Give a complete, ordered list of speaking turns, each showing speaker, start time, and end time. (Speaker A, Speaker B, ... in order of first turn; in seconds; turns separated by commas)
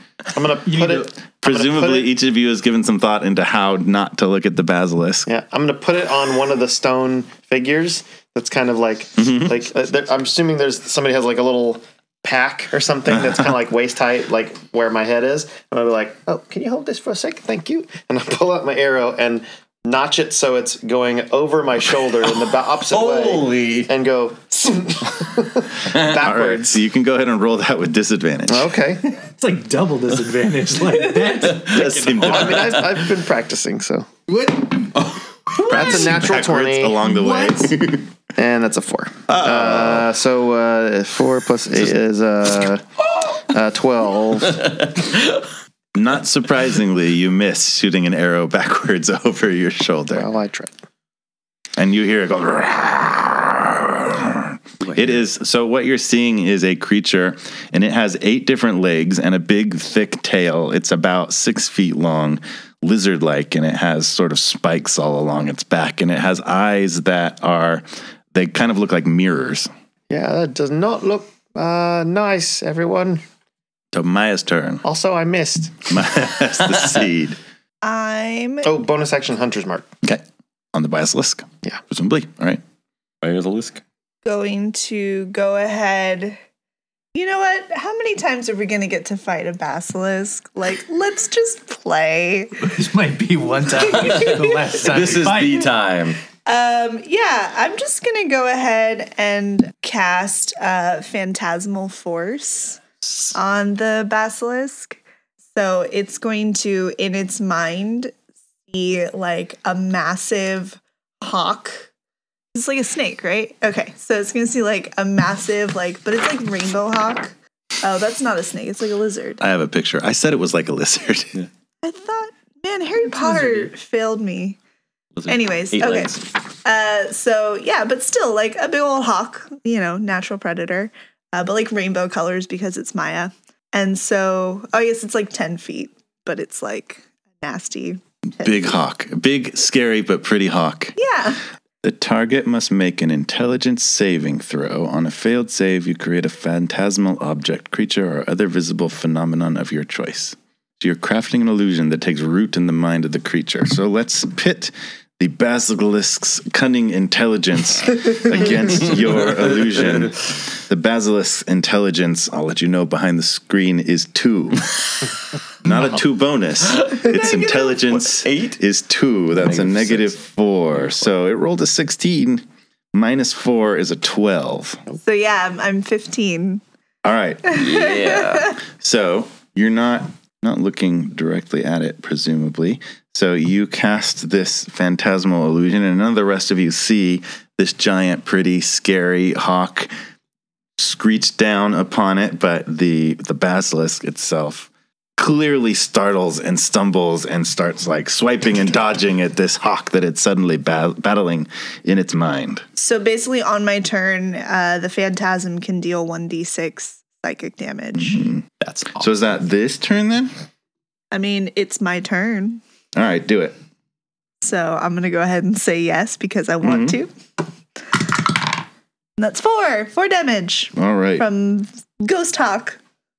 Speaker A: 0.3-2.1, Speaker B: 0.7-1.1, Speaker C: 1.4-5.3, Speaker A: 5.3-26.8, Speaker C: 9.2-9.5, Speaker D: 22.2-23.9, Speaker C: 26.0-28.7, Speaker A: 28.5-29.1, Speaker B: 29.1-32.6, Speaker A: 31.7-34.1, Speaker C: 32.1-32.4, Speaker B: 34.3-35.0, Speaker A: 35.6-37.0, Speaker B: 35.6-36.0, Speaker C: 35.7-38.1, Speaker B: 37.1-37.5, Speaker A: 38.4-44.9, Speaker C: 39.3-40.0, Speaker C: 45.9-50.3, Speaker A: 50.1-50.7, Speaker C: 51.8-69.7, Speaker A: 70.1-73.2, Speaker C: 73.9-74.8, Speaker A: 74.8-75.9, Speaker C: 75.9-77.4, Speaker E: 77.8-78.7, Speaker A: 78.6-79.9, Speaker C: 80.7-82.6, Speaker D: 83.2-83.8, Speaker E: 84.2-86.4, Speaker E: 87.1-92.7, Speaker B: 92.6-95.7, Speaker D: 93.8-96.2, Speaker E: 96.5-105.0, Speaker E: 105.5-108.1, Speaker E: 108.7-111.9, Speaker E: 112.5-119.4, Speaker C: 119.4-121.4, Speaker E: 121.8-124.6, Speaker D: 125.2-126.2, Speaker E: 125.3-138.6, Speaker C: 138.4-140.9, Speaker E: 141.0-141.4, Speaker C: 141.8-164.7, Speaker D: 159.1-160.2, Speaker C: 165.6-172.4, Speaker D: 166.8-168.6, Speaker D: 169.4-170.1, Speaker C: 172.9-174.8, Speaker E: 175.0-176.6, Speaker C: 177.0-177.6, Speaker E: 177.5-178.5, Speaker D: 177.5-178.5, Speaker C: 178.8-189.9, Speaker C: 190.8-202.6, Speaker E: 202.8-208.3, Speaker C: 208.1-208.4, Speaker C: 209.0-210.3, Speaker E: 211.1-212.6, Speaker C: 212.9-213.6, Speaker E: 214.4-217.1, Speaker C: 216.6-217.0, Speaker E: 217.9-218.4, Speaker E: 219.2-222.8, Speaker C: 220.7-221.2